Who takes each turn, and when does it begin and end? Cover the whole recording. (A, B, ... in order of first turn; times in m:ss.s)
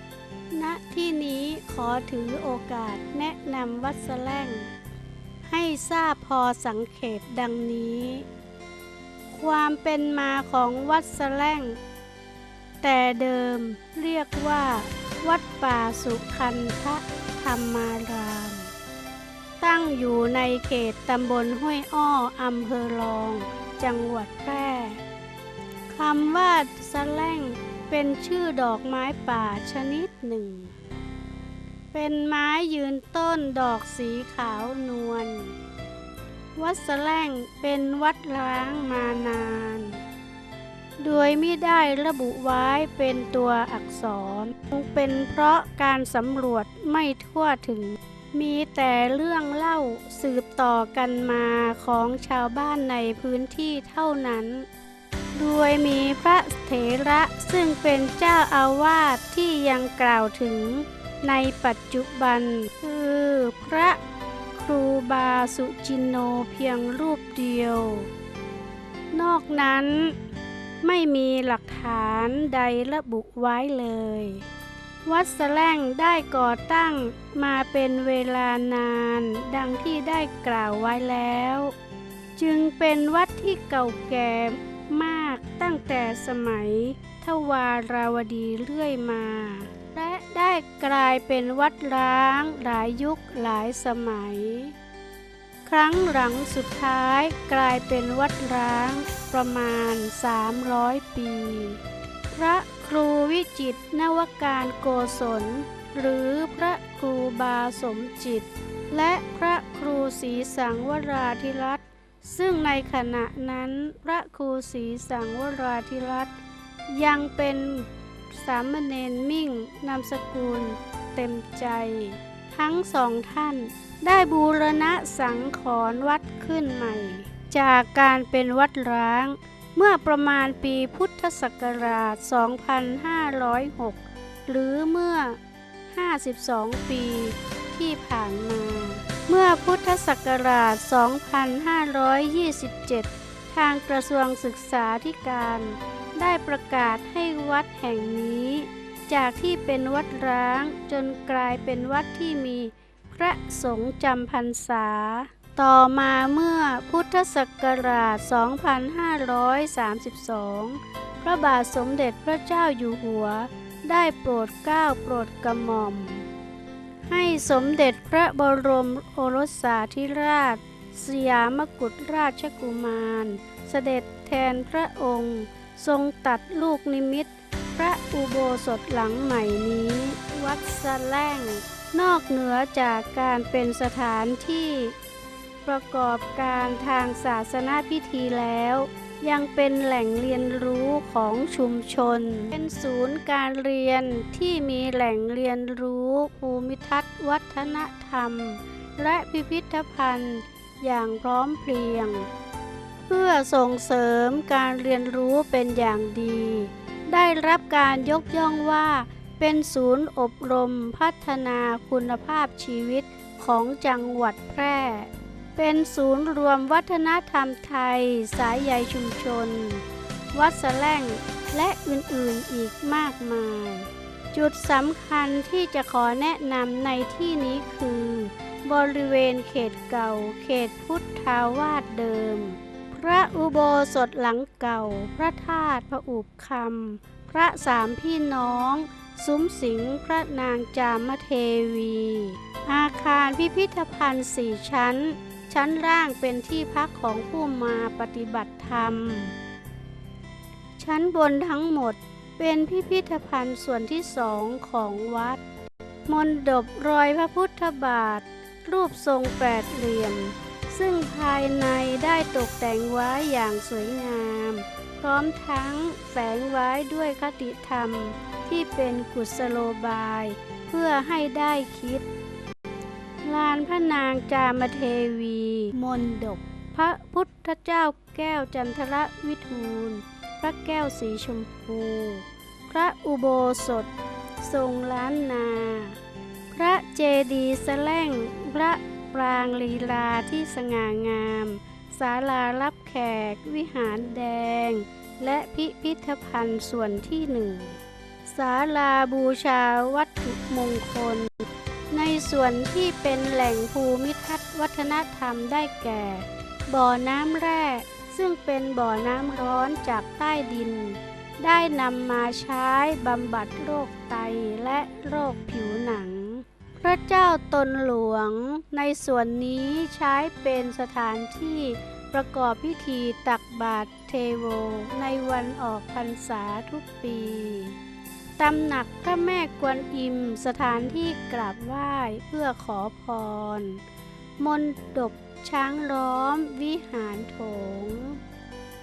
0:00.5-0:04.7 A
0:05.5-0:08.2 A
0:09.3-0:11.8 A
0:12.8-0:18.7 A
0:19.6-0:25.0 A
0:25.9-0:30.7 A
0:31.9-0:35.5 A
0:36.6-0:40.0 A
0:41.0-0:54.6 A
0:55.4-1:04.0 A
1:04.5-1:08.1 A
1:09.1-1:10.1 A
1:10.8-1:14.4 A
1:15.0-1:21.7 A
1:22.4-1:34.7 A
1:35.6-1:56.3 A
1:56.9-2:15.4 A
2:15.9-2:46.2 A
2:47.1-3:04.9 A
3:05.6-3:22.3 A
3:23.1-4:09.3 A
4:10.8-4:15.4 A
4:16.1-4:32.0 A
4:33.2-4:46.0 A
4:46.5-5:27.8 A
5:28.4-5:33.8 A
5:34.4-5:38.2 A